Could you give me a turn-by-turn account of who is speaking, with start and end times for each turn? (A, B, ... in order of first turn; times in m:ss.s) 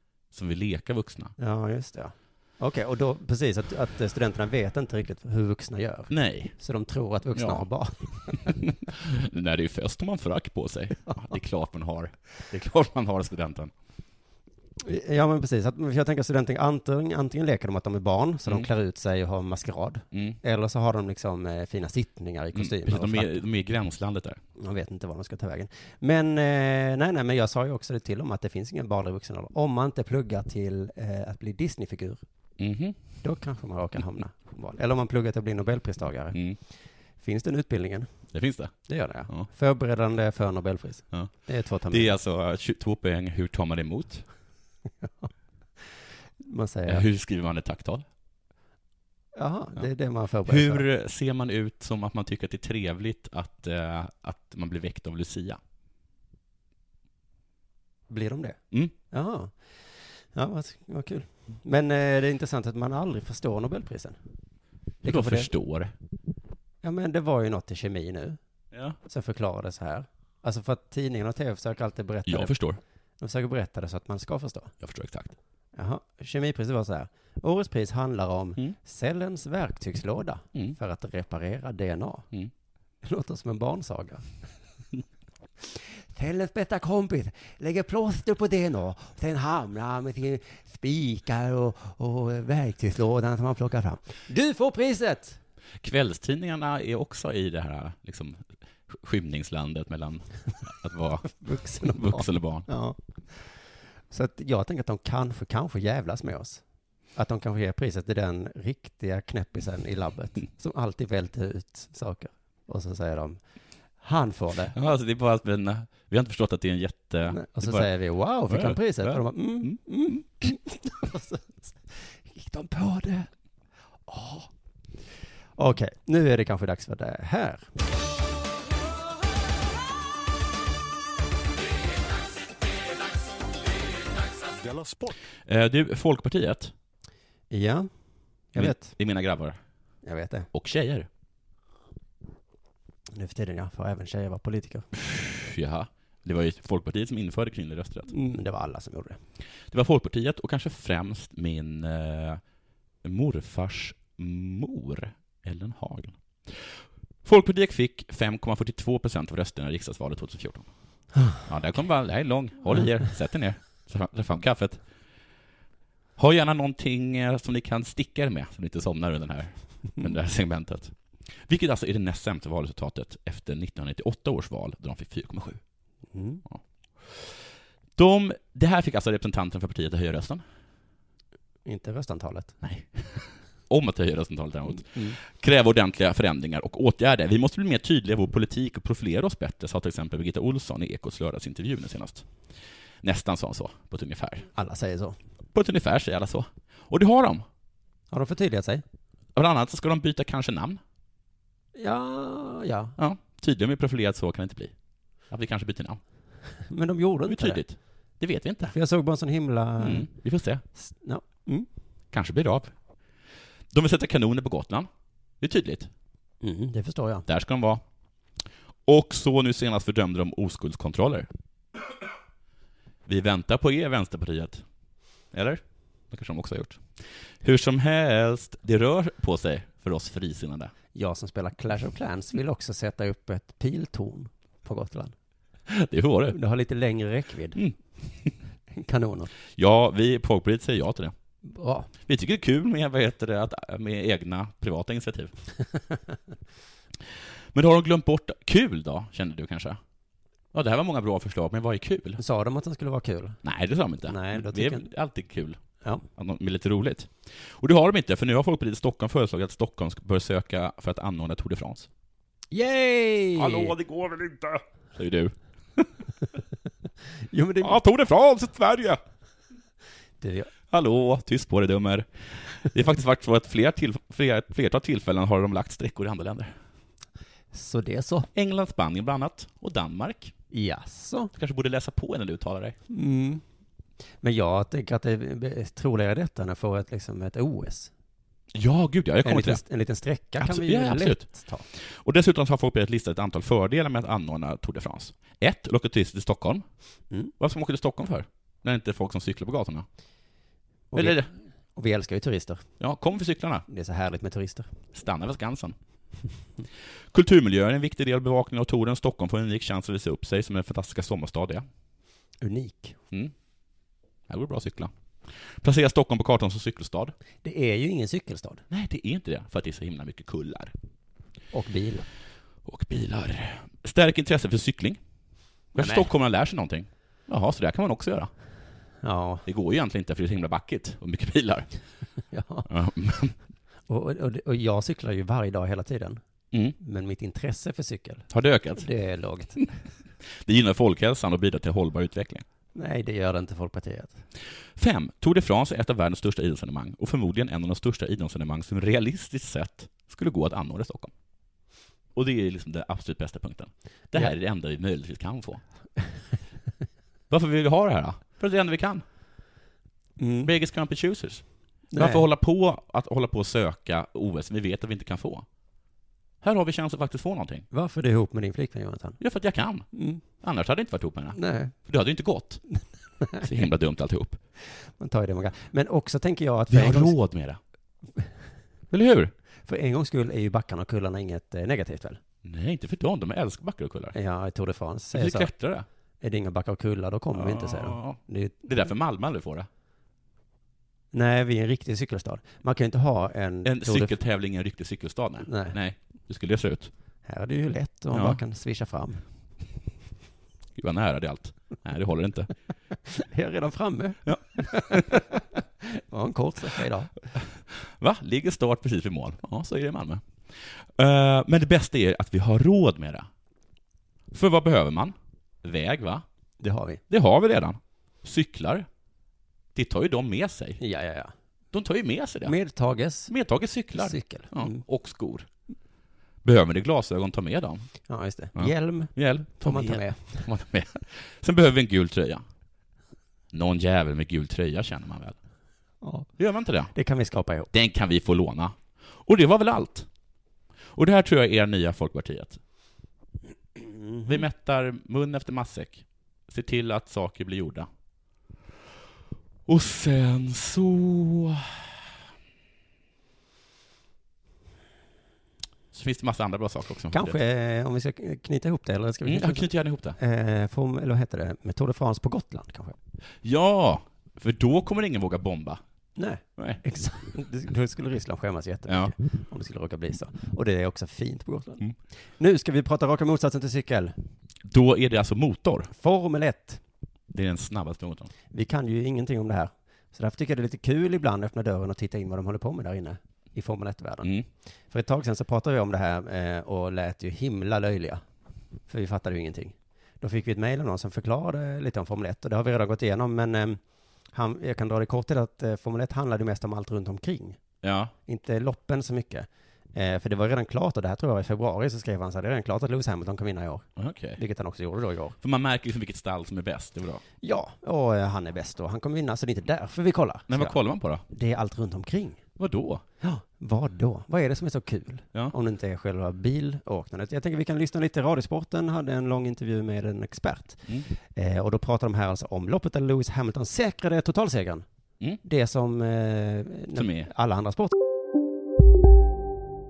0:00.3-0:01.3 A
0:01.4-0:08.5 B
0:06.1-0:06.5 A
0:07.3-0:07.6 A
0:08.4-0:13.7 A
0:14.8-0:23.4 B
0:20.1-0:20.4 A
0:22.5-0:24.4 A
0:24.6-0:32.2 B
0:32.6-0:33.0 A
0:33.2-0:36.4 B
0:37.2-0:38.1 B
0:38.3-0:38.7 A
0:38.8-0:42.1 B
0:41.9-0:44.2 A
0:45.0-0:45.3 B
0:46.4-0:47.0 B
0:46.8-0:48.0 A
0:49.3-0:50.8 B
0:50.4-0:55.6 A
0:58.1-0:58.6 B
0:59.1-0:59.7 B
1:00.3-1:04.2 B
1:05.0-1:05.5 B
1:05.0-1:05.9 A
1:06.8-1:08.4 B
1:08.7-1:09.0 A
1:09.0-1:12.6 B
1:12.2-1:12.8 A
1:13.2-1:14.7 B
1:14.8-1:15.3 A
1:15.8-1:22.3 B
1:23.0-1:24.2 B
1:25.6-1:35.4 B
1:35.8-1:42.7 A
1:41.4-1:43.6 B
1:44.1-1:46.6 B
1:47.2-1:53.4 B
1:54.0-1:54.7 B
1:54.7-1:57.9 A
1:57.3-2:03.3 B
1:58.5-1:59.8 A
2:04.1-2:04.5 B
2:05.6-2:07.7 B
2:15.4-2:16.7 A
2:17.5-2:17.9 B
2:18.5-2:18.9 B
2:18.6-2:19.6 A
2:20.0-2:20.5 B
2:20.5-2:21.1 A
2:23.1-2:24.8 B
2:25.0-2:28.1 A
2:28.1-2:29.2 B
2:29.7-2:32.4 A
2:33.0-2:40.7 A
2:41.1-2:41.4 B
2:41.4-2:44.8 A
2:46.2-2:55.6 A
2:56.1-2:56.4 B
2:56.5-2:57.4 A
2:58.0-3:00.4 A
3:01.6-3:02.6 B
3:02.6-3:12.3 A
3:04.7-3:05.2 B
3:13.0-3:14.5 A
3:14.5-3:15.2 B
3:15.5-3:17.4 A
3:18.1-3:18.8 B
3:19.3-3:20.8 A
3:21.8-3:23.0 B
3:23.0-3:24.7 A
3:25.3-3:26.0 A
3:26.7-3:27.6 B
3:27.3-3:28.7 A
3:28.7-3:30.1 B
3:29.8-3:30.6 A
3:30.8-3:31.7 B
3:32.1-3:32.7 A
3:33.7-3:34.9 A
3:35.4-3:35.9 A
3:36.4-3:37.2 B
3:37.3-3:37.8 A
3:38.9-3:41.3 A
3:43.0-3:44.6 A
3:45.3-3:50.7 A
3:50.9-3:55.1 B
3:55.7-3:56.4 A
3:56.3-3:57.6 B
3:57.5-3:58.3 A
3:58.7-3:59.3 B
3:59.5-4:01.1 A
4:01.4-4:01.9 B
4:02.1-4:05.3 A
4:07.5-4:09.8 A
4:10.5-4:12.2 A
4:12.2-4:13.4 B
4:13.4-4:15.6 A
4:14.0-4:14.9 B
4:16.2-4:21.9 A
4:22.5-4:23.7 B
4:23.4-4:25.9 A
4:27.3-4:27.8 B
4:27.6-4:29.0 A
4:30.2-4:30.5 B
4:30.7-4:36.5 A
4:37.5-4:38.3 B
4:38.3-4:40.3 A
4:40.5-4:41.3 B
4:41.4-4:42.8 A
4:42.9-4:43.4 B
4:44.2-4:47.9 B
4:48.5-4:49.6 A
4:49.2-4:51.6 B
4:50.4-4:56.6 A
4:57.4-4:59.8 A
5:00.9-5:01.2 B
5:00.9-5:01.3 A
5:01.7-5:02.6 B
5:02.8-5:03.6 A
5:03.7-5:04.7 B
5:04.9-5:05.8 A
5:07.1-5:11.6 A
5:12.4-5:13.0 B
5:14.3-5:17.1 A
5:17.4-5:18.6 B
5:18.7-5:20.7 A
5:21.5-5:22.1 B
5:22.6-5:25.0 A
5:25.7-5:28.3 A
5:25.8-5:26.1 B
5:29.0-5:29.4 B
5:29.4-5:31.7 A
5:32.3-5:32.7 B
5:32.7-5:33.3 A
5:33.9-5:36.2 B
5:36.8-5:39.6 B
5:38.3-5:38.9 A
5:40.4-5:42.4 A
5:42.7-5:44.2 B
5:44.8-5:51.1 A
5:52.1-5:55.6 A
5:57.3-5:59.0 A
6:00.2-6:00.5 B
6:00.4-6:05.4 A
6:01.9-6:02.2 B
6:06.4-6:07.6 A
6:07.7-6:09.2 B
6:09.2-6:12.6 A
6:09.9-6:10.2 B
6:11.3-6:11.7 B
6:13.4-6:14.4 A
6:15.0-6:17.1 B
6:16.7-6:17.6 A
6:18.9-6:19.3 A
6:19.7-6:22.2 B
6:22.4-6:24.2 A
6:24.1-6:25.5 B
6:25.1-6:25.8 A
6:26.2-6:28.6 B
6:27.3-6:29.7 A
6:31.1-6:34.2 B
6:33.6-6:36.9 A
6:35.4-6:35.8 B
6:37.2-6:39.2 B
6:38.1-6:38.4 A
6:40.8-6:42.5 A
6:43.1-6:47.1 B
6:44.2-6:45.0 A
6:47.4-6:53.3 A
6:54.3-6:56.2 A
6:56.6-6:57.0 B
6:57.1-6:58.9 A
6:59.7-7:00.8 A
7:00.8-7:01.3 B
7:01.7-7:02.5 A
7:02.4-7:03.3 B
7:03.3-7:05.5 A
7:03.9-7:04.8 B
7:06.4-7:07.9 A
7:08.1-7:10.4 B
7:08.6-7:12.4 A
7:13.5-7:15.4 A
7:16.0-7:16.3 B
7:16.4-7:16.9 A
7:16.9-7:17.7 B
7:17.7-7:20.1 A
7:20.9-7:22.6 A
7:23.8-7:24.4 B
7:24.2-7:27.9 A
7:29.7-7:31.8 A
7:35.9-7:37.4 A
7:37.1-7:43.0 B
7:39.2-7:40.2 A
7:43.4-7:45.8 A
7:46.2-7:51.9 B
7:48.9-7:49.1 A
7:52.4-7:54.2 B
7:54.6-7:55.9 A
7:55.9-7:56.8 B
7:57.3-7:58.3 A
7:58.5-8:04.3 B
8:04.9-8:08.2 B
8:08.9-8:13.8 B
8:14.3-8:17.6 B
8:17.8-8:18.1 A
8:18.3-8:25.4 B
8:24.0-8:24.4 A
8:25.4-8:27.2 A
8:27.4-8:30.8 B
8:30.5-8:31.2 A
8:31.3-8:32.4 B
8:32.6-8:33.0 A
8:33.2-8:44.8 B
8:45.4-8:47.9 B
8:46.9-8:47.3 A